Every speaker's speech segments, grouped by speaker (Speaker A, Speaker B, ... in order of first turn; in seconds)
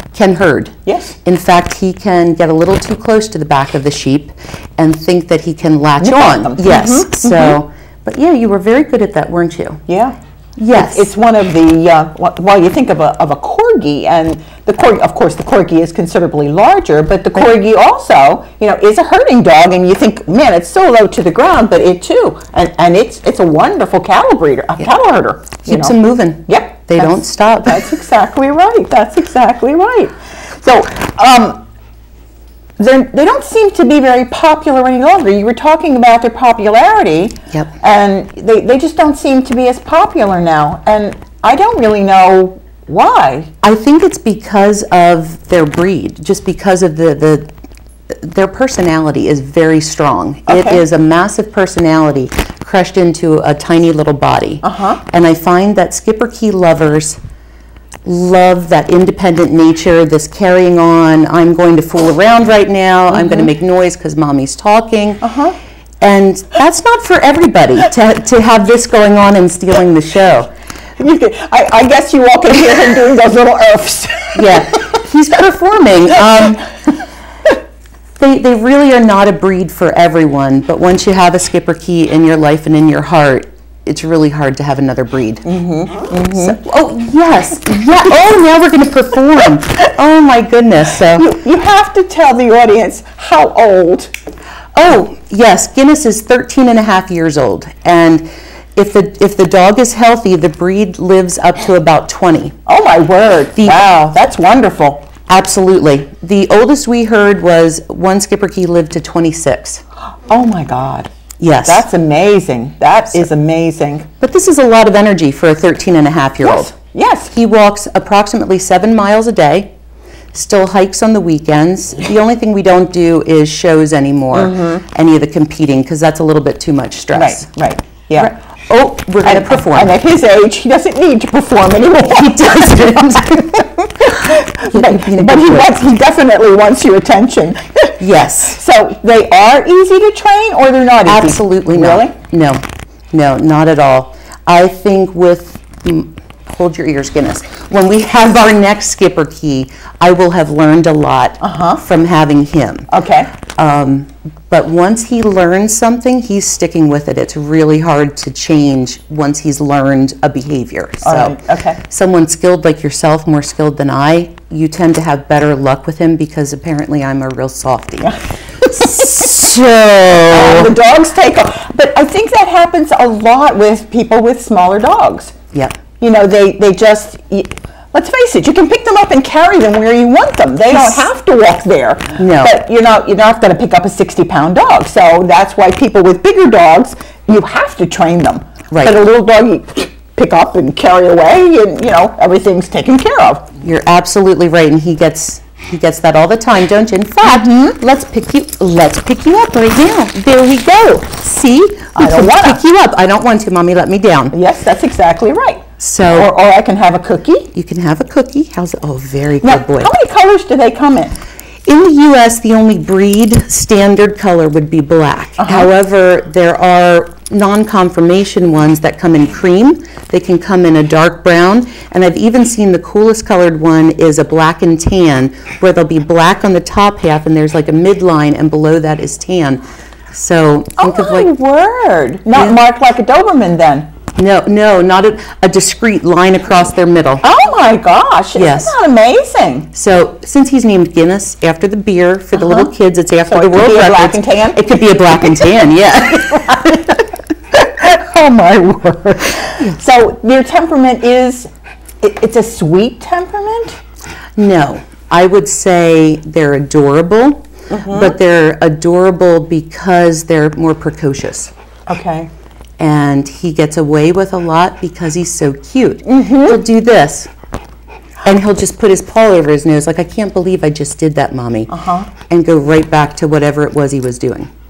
Speaker A: 0.1-9.8, 10.6-11.1, 25.6-27.9, 43.6-47.5, 48.1-57.2, 58.0-65.3, 66.0-70.5, 74.3-76.9, 78.2-85.5, 86.1-91.2, 94.8-102.6, 105.3-109.8, 111.4-111.8, 114.2-116.7, 117.3-119.7, 120.3-127.5, 128.2-129.9, 132.0-135.8, 138.0-138.6, 141.1-152.9, 153.5-170.7, 182.2-182.5, 188.7-189.0, 193.6-204.3, 205.8-206.3, 207.5-209.9, 211.7-231.3, 234.2-237.2, 238.3-238.7, 239.7-247.0, 254.4-261.5, 262.8-267.3, 268.2-271.7, 272.3-274.5
Speaker B: 0.8-1.2, 6.0-7.6, 9.9-10.2, 10.7-25.9, 26.5-31.6, 32.8-43.5, 50.5-50.8, 54.6-55.0, 63.1-63.5, 65.2-65.6, 71.0-74.9, 85.4-86.6, 91.0-94.1, 102.7-105.1, 110.2-114.1, 116.4-117.3, 124.3-124.8, 127.1-128.3, 129.2-142.1, 151.4-151.8, 152.9-153.3, 161.0-161.8, 168.0-169.5, 170.2-175.4, 176.0-193.5, 197.2-197.8, 201.9-202.6, 204.3-207.5, 209.4-211.1, 215.4-215.7, 230.8-233.9, 237.2-239.7, 242.3-242.7, 243.3-244.6, 245.2-245.5, 246.3-247.0, 247.5-251.5, 252.0-253.8, 257.7-258.2, 261.9-262.3, 266.1-266.6, 271.7-272.1